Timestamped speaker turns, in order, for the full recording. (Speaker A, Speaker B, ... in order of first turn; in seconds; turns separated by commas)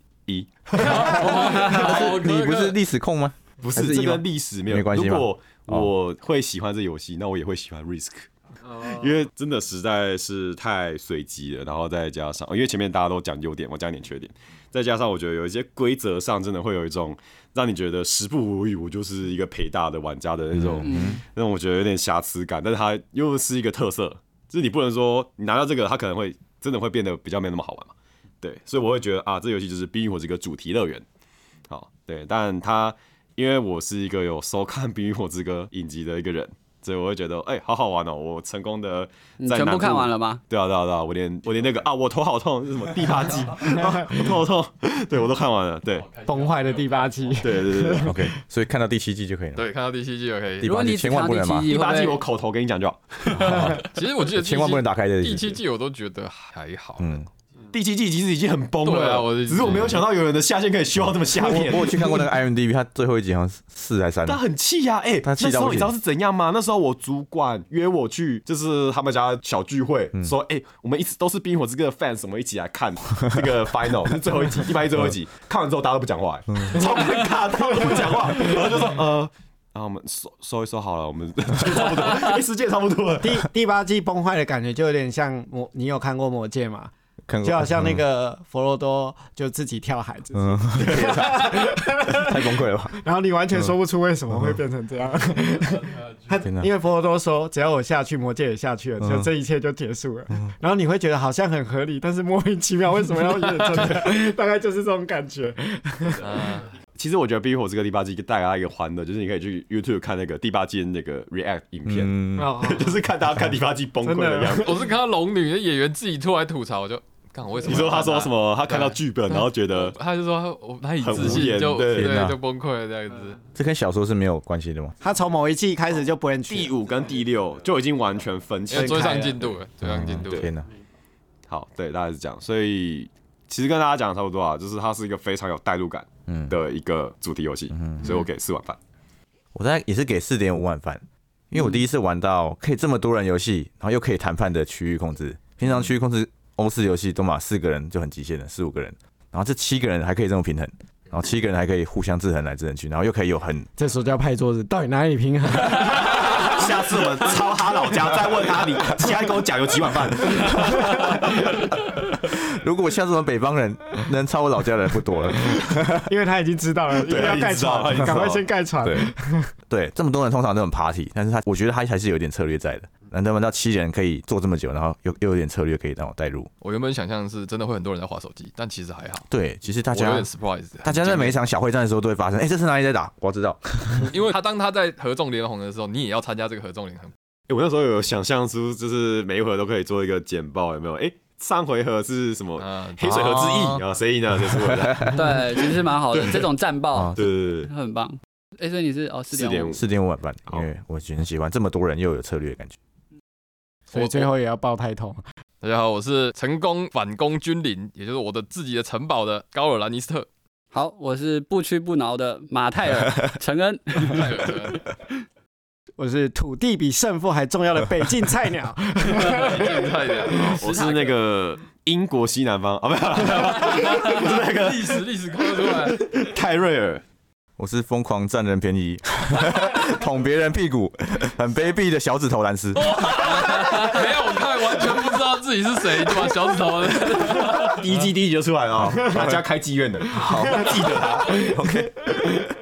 Speaker A: 0.3-1.7, Speaker B: 0.8-2.8, Speaker C: 0.9-5.9, Speaker A: 3.6-31.1, Speaker C: 20.5-21.2, Speaker D: 20.8-21.2, Speaker A: 31.7-46.1, Speaker D: 39.4-40.4, Speaker E: 43.6-44.4, Speaker B: 46.1-47.4, Speaker E: 46.2-48.3, Speaker A: 47.4-48.2, Speaker C: 48.0-49.6, Speaker B: 49.6-50.7, Speaker C: 50.6-51.7, Speaker D: 50.6-52.2, Speaker A: 51.7-53.6, Speaker C: 53.3-55.6, Speaker B: 53.4-57.2, Speaker C: 57.0-57.3, Speaker A: 57.7-62.3, Speaker B: 58.8-60.0, Speaker C: 61.0-64.4, Speaker A: 64.3-83.5, Speaker C: 65.2-66.0, Speaker E: 77.9-78.6, Speaker E: 83.2-86.9, Speaker C: 87.3-88.0, Speaker E: 87.4-106.3, Speaker C: 90.3-93.0, Speaker C: 94.3-94.6, Speaker C: 96.4-96.7, Speaker C: 99.0-99.3, Speaker B: 106.2-106.7, Speaker A: 107.0-114.7, Speaker C: 111.9-112.6, Speaker E: 112.4-113.0, Speaker E: 114.0-114.7, Speaker B: 114.5-123.4, Speaker A: 117.6-120.0, Speaker A: 121.0-122.2, Speaker C: 121.9-122.4, Speaker C: 123.5-124.9, Speaker E: 125.0-126.7, Speaker A: 126.5-129.6, Speaker B: 128.7-130.5, Speaker E: 128.7-129.4, Speaker C: 129.8-130.7, Speaker A: 131.5-138.8, Speaker C: 136.3-136.6, Speaker C: 137.7-138.1, Speaker C: 139.5-153.7, Speaker E: 153.8-156.6, Speaker A: 156.1-161.4, Speaker C: 160.6-161.1, Speaker C: 161.9-166.1, Speaker E: 165.9-169.5, Speaker A: 167.0-168.5, Speaker C: 168.8-169.1, Speaker C: 169.7-176.5, Speaker B: 176.6-179.3, Speaker C: 179.3-180.3, Speaker B: 179.9-181.4, Speaker C: 180.8-184.1, Speaker B: 184.0-187.1, Speaker A: 187.5-195.2, Speaker B: 192.6-193.5, Speaker C: 193.0-193.8, Speaker C: 194.3-195.7, Speaker D: 195.1-199.8, Speaker C: 196.9-197.3, Speaker A: 197.1-197.7, Speaker A: 199.3-199.9, Speaker C: 199.7-202.8, Speaker E: 203.9-205.2, Speaker B: 203.9-204.3, Speaker B: 205.6-210.3, Speaker D: 210.7-214.5, Speaker B: 214.0-214.8, Speaker E: 216.0-219.9, Speaker B: 219.1-221.2, Speaker A: 220.3-227.0, Speaker B: 223.2-226.0, Speaker C: 227.6-233.0, Speaker B: 232.8-237.8, Speaker A: 237.3-241.4, Speaker C: 240.1-242.1, Speaker E: 240.6-241.8